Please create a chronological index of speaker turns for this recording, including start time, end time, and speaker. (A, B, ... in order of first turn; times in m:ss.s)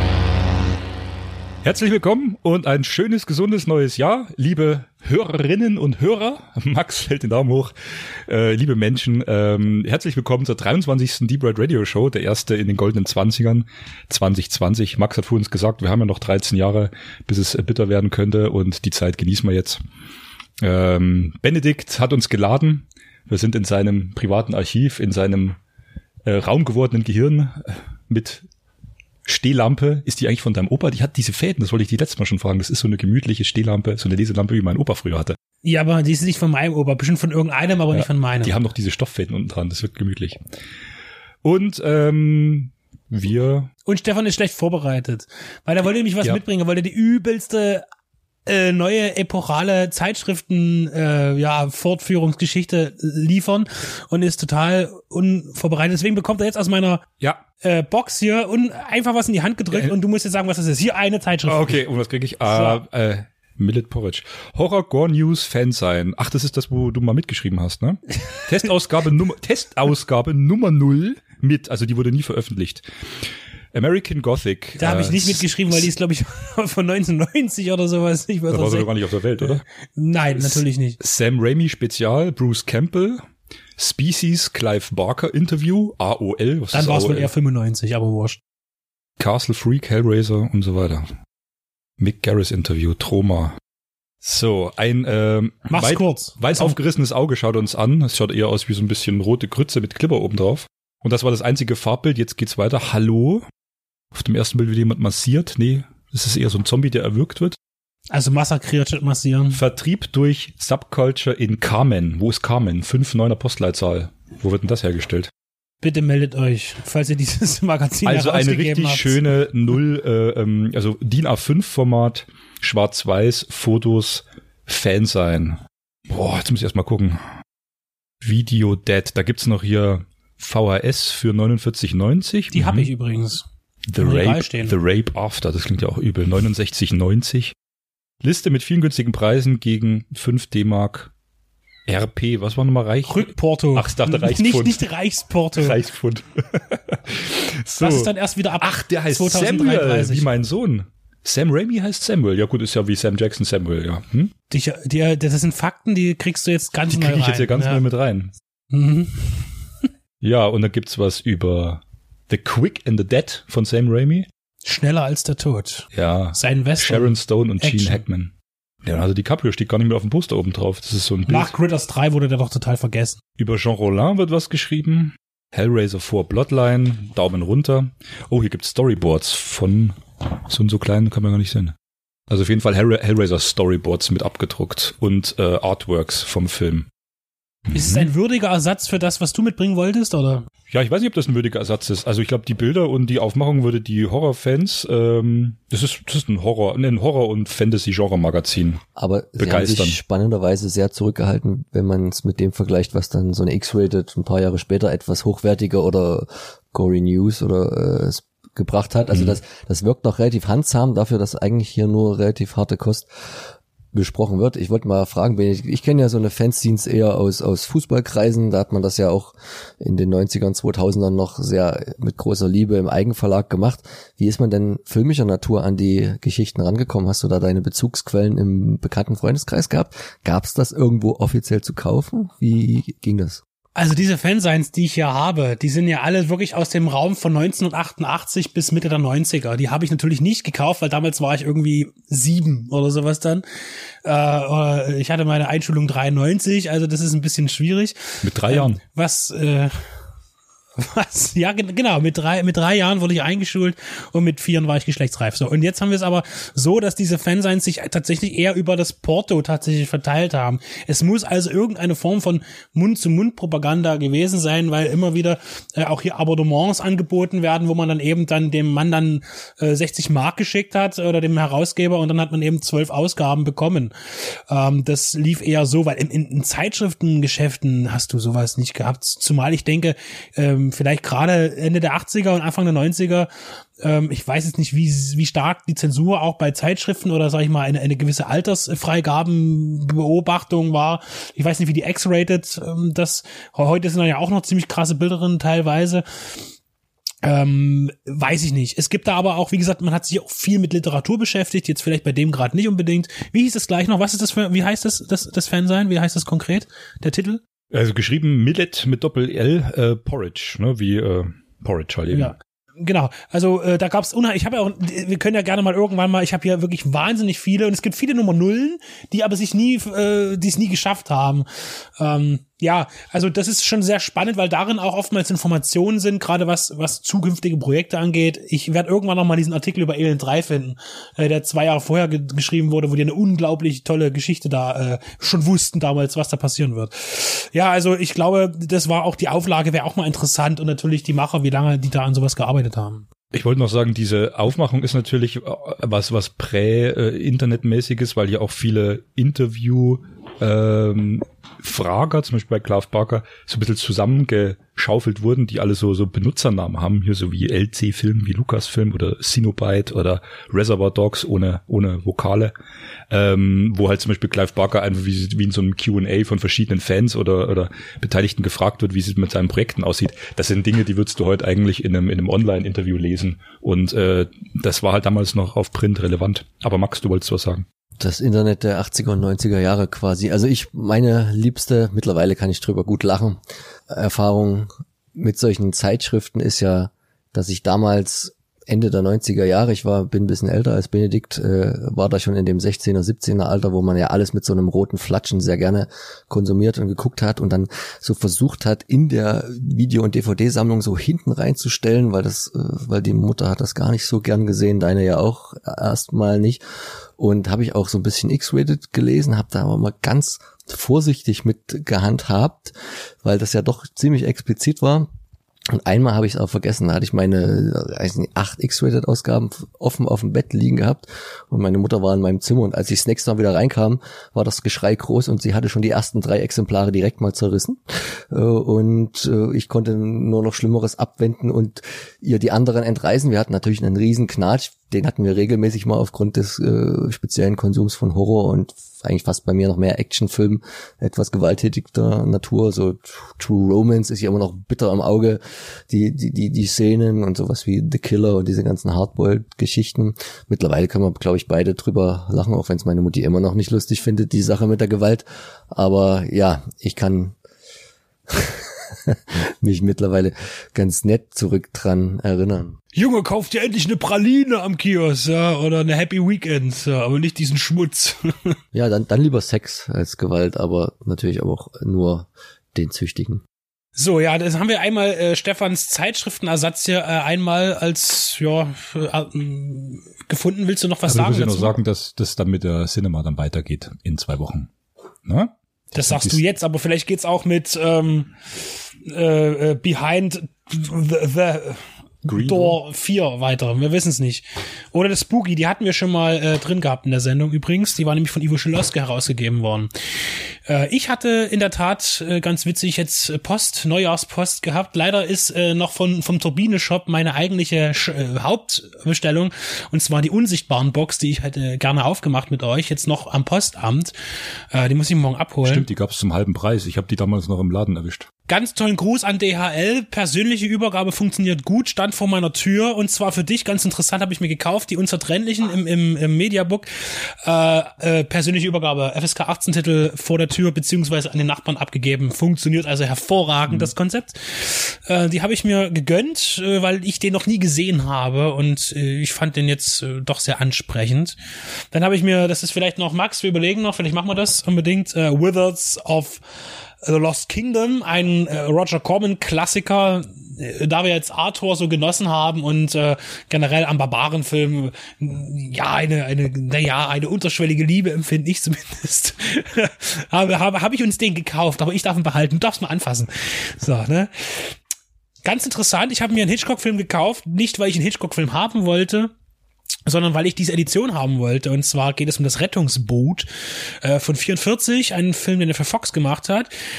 0:01.6-0:07.7 A
0:08.3-0:19.8 A
0:20.6-0:25.6 A
0:26.2-0:28.4 A
0:29.3-0:35.4 A
0:35.6-0:38.6 B
0:37.9-0:40.4 A
0:41.4-0:43.7 A
0:43.9-0:47.8 B
0:48.5-0:57.0 B
0:57.6-1:01.8 B
1:01.5-1:15.8 A
1:02.5-1:02.8 B
1:14.8-1:18.9 B
1:18.5-1:19.6 A
1:19.4-1:21.0 B
1:20.3-1:23.2 A
1:23.8-1:27.3 A
1:26.7-1:28.4 B
1:29.2-1:31.1 A
1:32.0-1:33.6 A
1:34.2-1:43.5 A
1:35.7-1:36.8 B
1:44.1-1:47.6 A
1:48.1-1:49.6 B
1:49.5-1:55.3 A
1:55.8-1:59.2 B
1:58.0-2:05.6 A
2:06.1-2:07.2 A
2:08.2-2:12.9 A
2:12.5-2:13.4 B
2:13.9-2:17.5 A
2:14.0-2:14.7 B
2:18.2-2:21.1 A
2:21.9-2:24.8 A
2:23.1-2:25.8 B
2:25.6-2:34.3 A
2:27.7-2:30.3 B
2:34.5-2:37.8 B
2:36.9-2:38.3 A
2:38.7-2:39.6 B
2:40.2-2:44.3 A
2:44.6-2:48.0 B
2:45.9-2:48.3 A
2:48.8-2:51.5 A
2:51.3-2:53.2 B
2:53.4-3:01.7 A
3:02.3-3:06.9 A
3:07.7-3:10.4 B
3:07.7-3:08.1 A
3:10.7-3:18.8 A
3:19.0-3:33.1 C
3:19.4-3:20.0 A
3:33.9-3:53.4 C
3:53.8-4:03.4 B
4:04.0-4:09.7 B
4:08.2-4:08.8 A
4:10.8-4:43.3 B
4:43.8-4:56.0 B
4:57.2-5:07.4 B
5:07.7-5:12.4 A
5:12.1-5:43.1 B
5:43.3-6:02.5 A
6:03.1-6:17.6 A
6:18.0-6:46.6 C
6:47.2-6:55.1 C
6:55.7-7:37.4 C
7:38.3-7:42.8 C
7:42.9-7:48.6 B
7:48.7-7:53.4 C
7:54.0-8:01.7 B
8:01.1-8:04.7 A
8:05.3-8:06.4 A
8:06.0-8:08.3 B
8:09.0-8:34.1 B
8:12.3-8:12.8 A
8:34.7-8:35.9 B
8:35.6-8:38.3 A
8:38.5-9:01.4 B
8:53.7-8:53.9 A
9:01.9-9:06.4 B
9:07.0-9:24.8 B
9:25.4-9:29.3 B
9:30.1-9:36.7 B